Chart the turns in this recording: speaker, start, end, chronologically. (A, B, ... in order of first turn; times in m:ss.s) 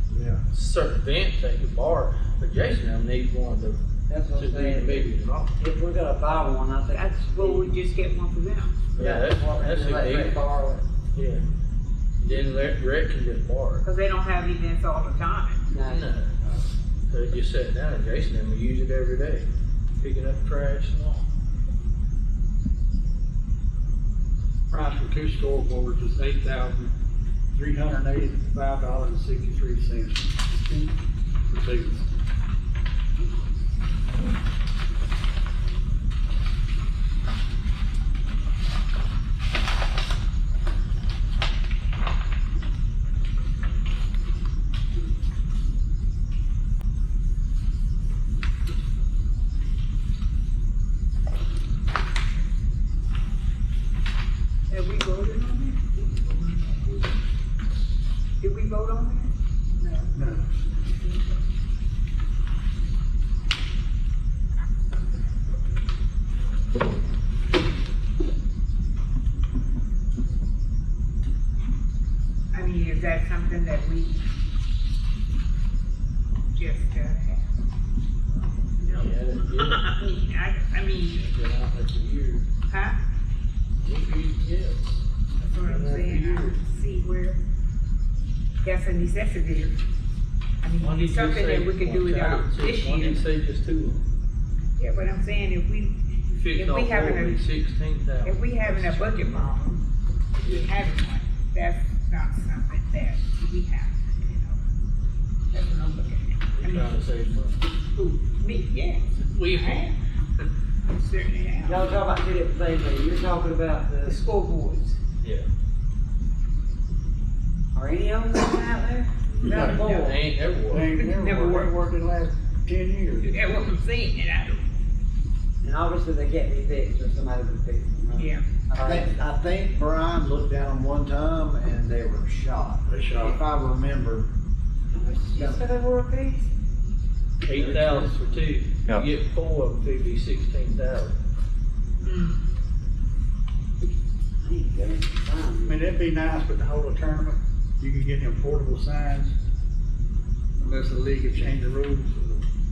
0:00.1-0:00.4 A
0:00.5-0:03.8 B
0:04.1-0:07.7 C
0:04.3-0:05.5 B
0:06.9-0:08.9 D
0:09.0-0:10.4 B
0:09.0-0:10.8 C
0:11.1-0:11.4 B
0:12.2-0:13.8 B
0:13.8-0:15.7 D
0:15.7-0:16.0 C
0:15.8-0:16.3 B
0:17.1-0:19.5 B
0:20.0-0:21.2 B
0:24.7-0:26.9 E
0:27.5-0:30.9 E
0:31.5-0:32.1 E
0:54.7-0:57.2 D
0:58.4-1:00.2 D
1:00.1-1:00.5 E
1:00.7-1:01.4 D
1:12.5-1:14.2 D
1:16.5-1:17.5 D
1:18.8-1:21.2 D
1:18.8-1:19.9 B
1:21.1-1:22.4 B
1:22.7-1:23.0 D
1:23.8-1:25.0 B
1:25.4-1:27.4 D
1:25.6-1:26.6 B
1:28.6-1:29.8 D
1:30.6-1:33.3 D
1:30.8-1:34.0 B
1:34.8-1:37.4 D
1:36.3-1:39.5 B
1:38.2-1:39.8 D
1:40.4-1:44.6 D
1:40.4-1:40.8 B
1:45.5-1:47.0 D
1:46.5-1:47.6 B
1:47.9-1:49.9 D
1:49.2-1:50.4 B
1:50.8-1:52.0 D
1:51.6-1:54.2 C
1:54.0-1:55.0 D
1:55.2-1:55.5 B
1:57.7-2:00.2 C
1:59.3-2:00.9 B
1:59.4-1:59.9 E
1:59.9-2:00.2 D
2:00.6-2:03.3 E
2:00.9-2:01.7 D
2:03.2-2:04.6 D
2:05.6-2:09.2 C
2:08.1-2:08.4 D
2:08.7-2:14.3 A
2:12.9-2:13.4 E
2:14.9-2:16.5 C
2:15.3-2:15.6 A
2:17.4-2:21.1 B
2:17.5-2:18.1 E
2:22.0-2:22.3 D
2:24.4-2:25.9 C
2:25.6-2:29.3 E
2:30.6-2:32.4 E